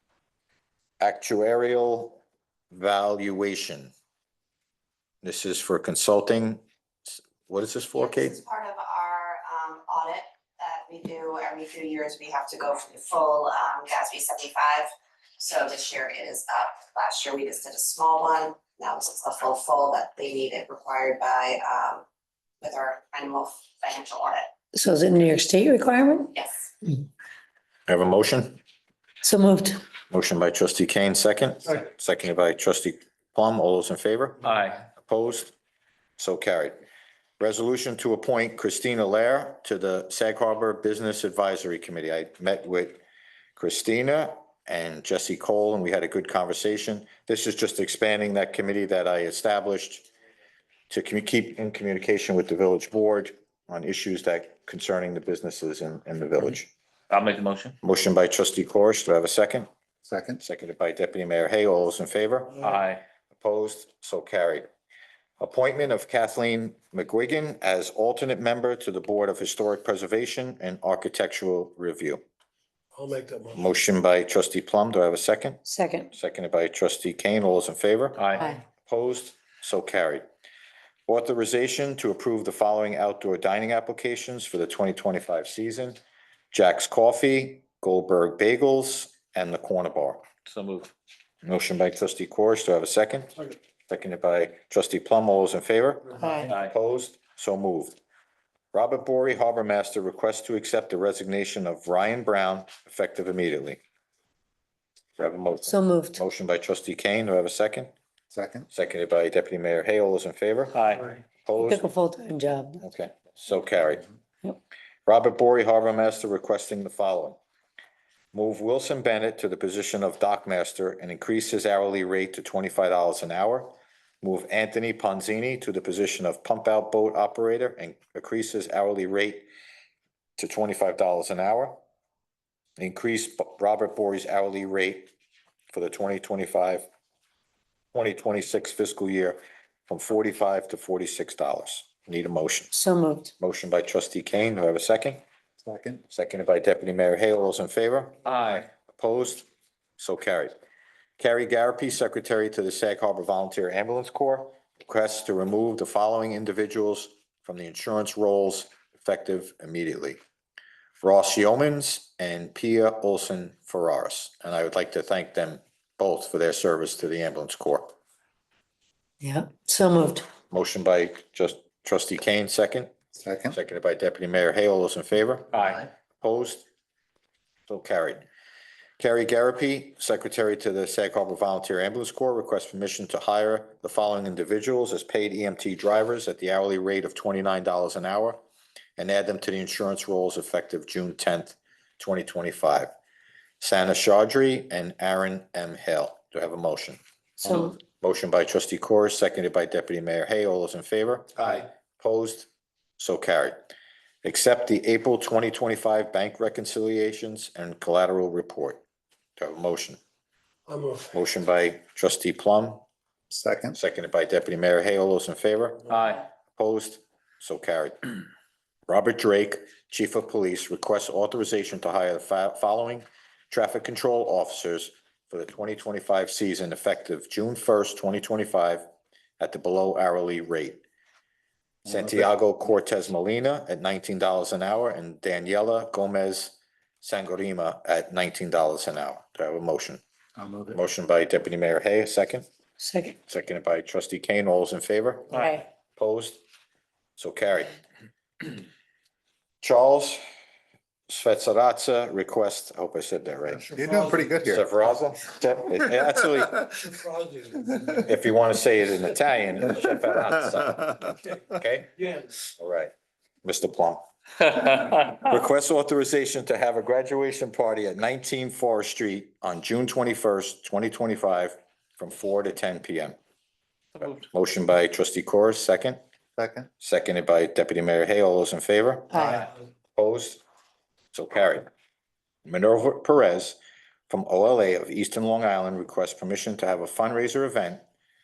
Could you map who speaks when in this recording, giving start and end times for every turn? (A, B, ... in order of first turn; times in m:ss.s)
0:01.0-0:02.2 A
0:02.7-0:03.9 A
0:05.2-0:08.4 A
0:08.0-0:22.0 B
0:22.6-0:24.5 B
0:24.7-0:26.3 C
0:26.3-0:26.7 B
0:27.9-0:28.6 A
0:29.2-0:29.8 C
0:30.1-0:34.4 A
0:34.4-0:34.8 D
0:35.0-0:35.5 A
0:36.2-0:36.8 A
0:37.4-0:43.0 A
0:43.6-0:50.1 A
0:50.9-0:56.7 A
0:57.1-0:57.8 D
0:57.8-0:59.7 A
1:00.0-1:00.4 E
1:00.4-1:02.8 A
1:02.6-1:03.0 D
1:03.3-1:04.7 A
1:05.4-1:12.2 A
1:12.9-1:13.7 F
1:13.5-1:20.2 A
1:15.6-1:16.1 C
1:18.2-1:18.5 D
1:21.1-1:26.0 A
1:26.5-1:30.2 A
1:30.5-1:30.9 D
1:31.4-1:33.3 A
1:33.9-1:38.0 A
1:36.1-1:36.5 C
1:36.5-1:36.7 D
1:38.7-1:43.8 A
1:45.2-1:47.9 A
1:45.6-1:46.2 C
1:48.3-1:48.7 E
1:48.7-1:50.8 A
1:50.7-1:51.2 D
1:51.4-1:51.9 A
1:51.6-1:52.8 C
1:52.8-1:54.0 A
1:55.0-1:57.4 A
1:58.3-2:09.5 A
2:10.4-2:11.8 A
2:12.8-2:15.1 A
2:15.7-2:16.8 A
2:17.9-2:22.7 A
2:22.7-2:23.3 C
2:23.4-2:25.2 A
2:25.6-2:26.0 E
2:26.1-2:29.5 A
2:28.2-2:28.6 D
2:30.0-2:30.5 A
2:31.2-2:40.2 A
2:41.0-2:47.9 A
2:49.2-2:50.2 C
2:50.5-2:52.9 A
2:53.2-2:53.6 E
2:53.5-2:55.6 A
2:55.5-2:55.8 D
2:56.2-2:56.6 A
2:57.7-2:58.2 A
2:59.0-3:08.4 A
3:09.0-3:12.9 A
3:13.6-3:17.0 A
3:17.4-3:17.8 C
3:17.8-3:22.5 A
3:23.0-3:23.6 A
3:24.2-3:28.8 A
3:29.4-3:30.0 A
3:30.7-3:31.1 F
3:31.1-3:32.8 A
3:33.3-3:33.8 E
3:33.7-3:38.2 A
3:35.9-3:36.2 D
3:38.9-3:48.8 A
3:49.4-3:50.8 A
3:51.8-3:52.3 E
3:51.9-4:00.0 A
4:00.4-4:00.8 E
4:00.7-4:02.4 A
4:02.8-4:03.2 C
4:03.3-4:06.4 A
4:05.3-4:05.6 D
4:05.3-4:05.6 C
4:07.2-4:07.8 A
4:09.6-4:10.2 A
4:11.1-4:13.7 A
4:13.6-4:14.6 E
4:13.8-4:14.3 F
4:14.4-4:16.8 A
4:16.8-4:18.0 F
4:18.0-4:21.9 A
4:22.6-4:22.9 A
4:23.4-4:24.0 A
4:24.6-4:33.2 A
4:24.7-4:25.0 D
4:34.0-4:34.2 D
4:34.0-4:36.0 A
4:36.4-4:36.7 E
4:36.8-4:39.4 A
4:39.1-4:39.5 C
4:40.0-4:40.4 A
4:41.1-4:41.7 A
4:42.4-4:43.6 A
4:44.1-4:47.8 A